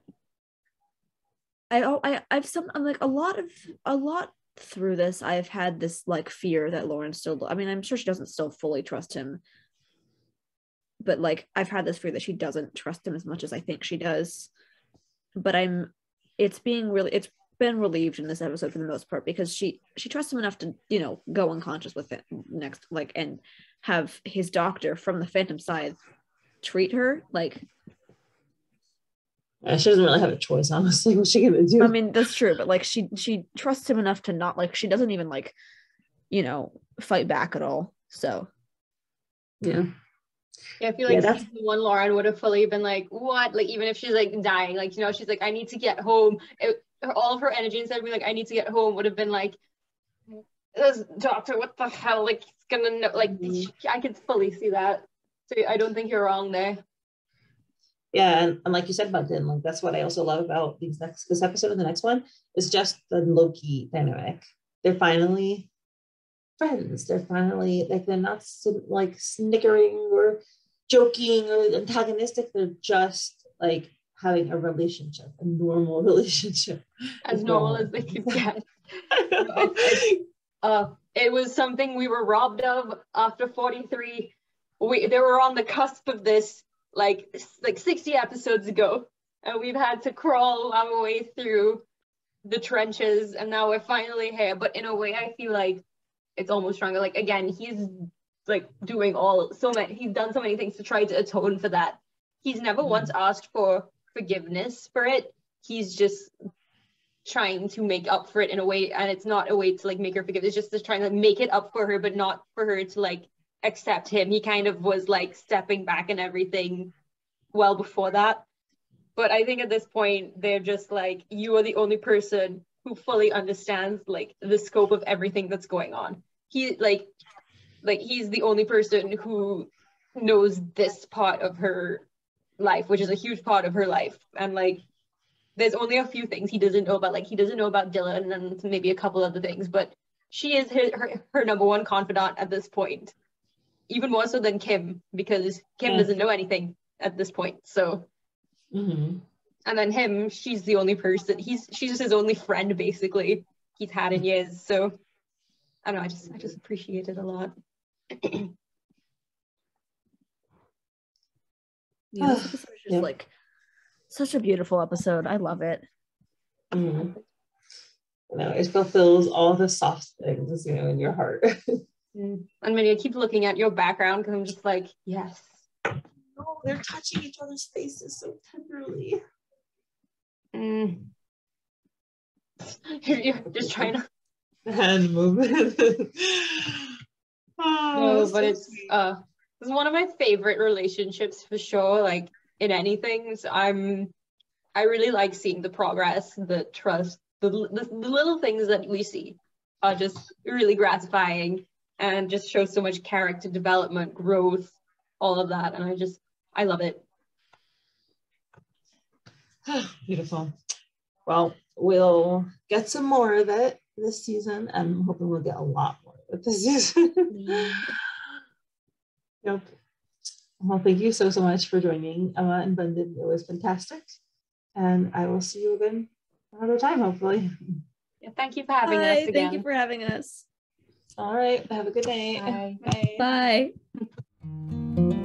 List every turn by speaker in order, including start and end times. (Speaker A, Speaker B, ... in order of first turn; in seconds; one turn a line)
Speaker A: 1.7-9.4
Speaker A: 11.0-14.5
Speaker A: 15.3-26.0
Speaker A: 26.6-27.6
Speaker B: 29.6-31.9
Speaker A: 31.8-35.5
Speaker A: 36.3-38.5
Speaker B: 39.6-39.9
Speaker C: 40.8-49.6
Speaker B: 41.0-41.4
Speaker C: 50.3-56.8
Speaker B: 53.3-53.7
Speaker B: 58.1-65.7
Speaker B: 66.6-78.4
Speaker C: 77.2-78.6
Speaker B: 79.1-80.2
Speaker C: 79.3-91.8
Speaker C: 92.4-95.8
Speaker C: 96.4-106.3
Speaker B: 102.8-103.1
Speaker C: 107.2-116.9
Speaker C: 117.5-118.4
Speaker C: 119.2-127.1
Speaker C: 127.8-132.0
Speaker C: 132.6-134.8
Speaker C: 135.6-143.1
Speaker C: 143.9-148.1
Speaker B: 148.7-149.2
Speaker C: 149.7-155.0
Speaker C: 155.8-157.5
Speaker C: 158.1-158.5
Speaker A: 162.1-163.3
Speaker B: 162.2-163.1
Speaker A: 164.1-165.8
Speaker B: 166.7-167.1
Speaker B: 168.3-171.8
Speaker C: 172.1-175.6
Speaker B: 176.4-179.2
Speaker C: 180.5-181.1
Speaker C: 182.6-184.0
Speaker B: 183.6-183.9
Speaker B: 184.7-186.9
Speaker B: 187.6-188.9
Speaker C: 187.9-194.1
Speaker C: 194.7-207.0
Speaker B: 209.7-210.5
Speaker B: 211.2-217.8
Speaker C: 217.3-217.9
Speaker B: 220.6-224.2
Speaker B: 224.8-227.5
Speaker C: 228.2-229.6
Speaker A: 228.8-230.4
Speaker B: 231.2-233.3
Speaker C: 232.3-232.8
Speaker A: 233.2-233.7